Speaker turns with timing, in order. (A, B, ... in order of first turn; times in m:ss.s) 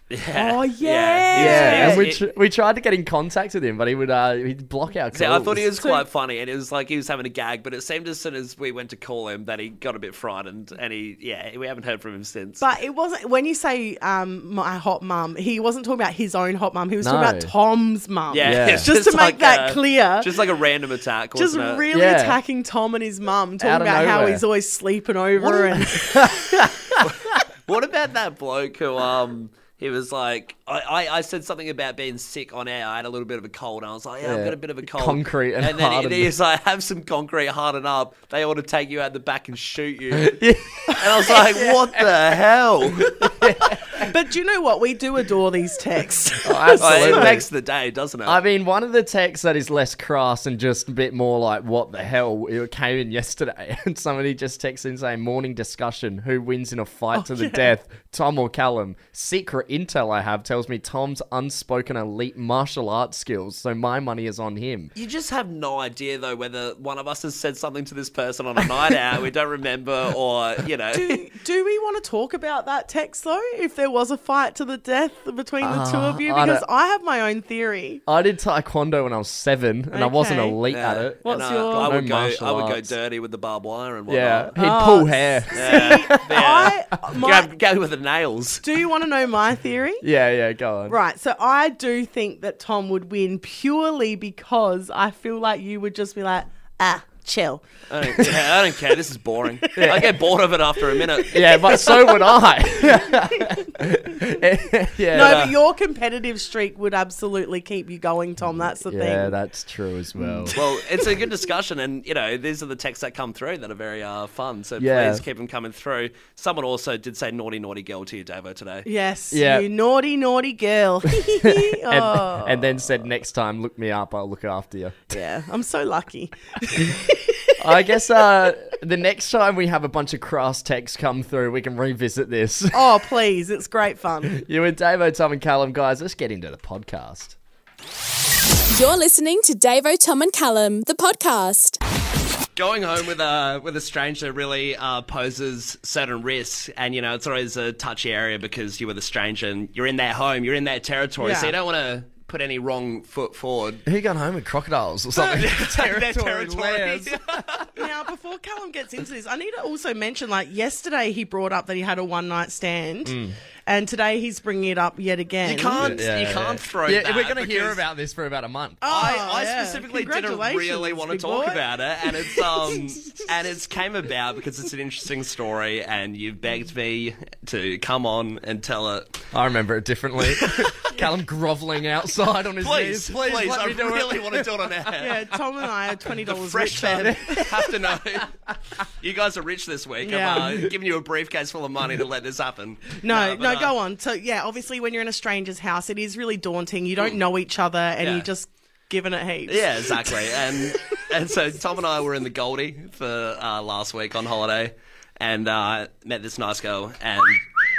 0:00.1-0:02.2 A
0:00.4-0:02.1 B
0:01.4-0:05.6 C
0:05.1-0:12.6 A
0:05.8-0:06.0 B
0:12.6-0:20.3 B
0:17.0-0:17.5 C
0:18.3-0:21.8 A
0:18.4-0:18.9 C
0:21.4-0:26.4 B
0:21.9-0:22.4 C
0:23.6-0:24.4 C
0:25.4-0:27.0 C
0:27.0-0:43.4 A
0:34.2-0:36.3 C
0:40.1-0:42.1 C
0:43.1-0:44.1 C
0:44.0-0:47.3 B
0:46.4-0:47.4 C
0:46.8-0:48.4 A
0:48.3-1:04.9 C
0:57.1-0:57.7 B
1:05.0-1:11.2 A
1:10.9-1:18.0 B
1:15.6-1:16.6 C
1:18.1-1:22.9 C
1:19.9-1:20.6 B
1:20.7-1:24.6 A
1:21.2-1:21.9 B
1:24.1-1:26.7 C
1:24.6-1:27.5 B
1:25.6-1:28.6 A
1:28.6-1:30.0 B
1:30.0-1:31.0 C
1:30.9-1:37.6 B
1:37.9-1:41.4 A
1:39.8-1:40.1 C
1:41.3-1:45.5 C
1:41.4-1:42.3 B
1:45.1-1:49.3 B
1:45.2-1:45.5 A
1:48.4-1:50.6 C
1:50.5-1:50.8 B
1:50.6-1:58.9 A
1:54.8-1:55.2 C
1:58.8-2:03.0 B
1:59.3-1:59.7 C
2:01.4-2:05.2 C
2:05.1-2:07.5 B
2:07.6-2:12.9 C
2:12.7-2:14.4 B
2:14.3-2:17.4 C
2:18.7-2:21.8 D
2:22.6-2:33.8 A
2:31.2-2:31.5 B
2:33.9-2:37.6 C
2:35.2-2:37.7 A
2:37.8-2:46.0 B
2:43.0-2:43.4 C
2:45.4-2:47.8 A
2:45.8-2:48.8 C
2:48.8-2:51.6 B
2:48.9-2:59.2 A
2:52.3-2:52.7 B
2:59.3-3:04.7 C
3:00.4-3:00.7 A
3:02.6-3:05.3 A
3:05.0-3:07.5 B
3:06.2-3:08.3 A
3:07.0-3:07.7 C
3:09.0-3:13.7 A
3:10.0-3:10.5 B
3:10.2-3:10.7 C
3:13.0-3:21.0 B
3:18.0-3:18.3 A
3:19.5-3:27.4 A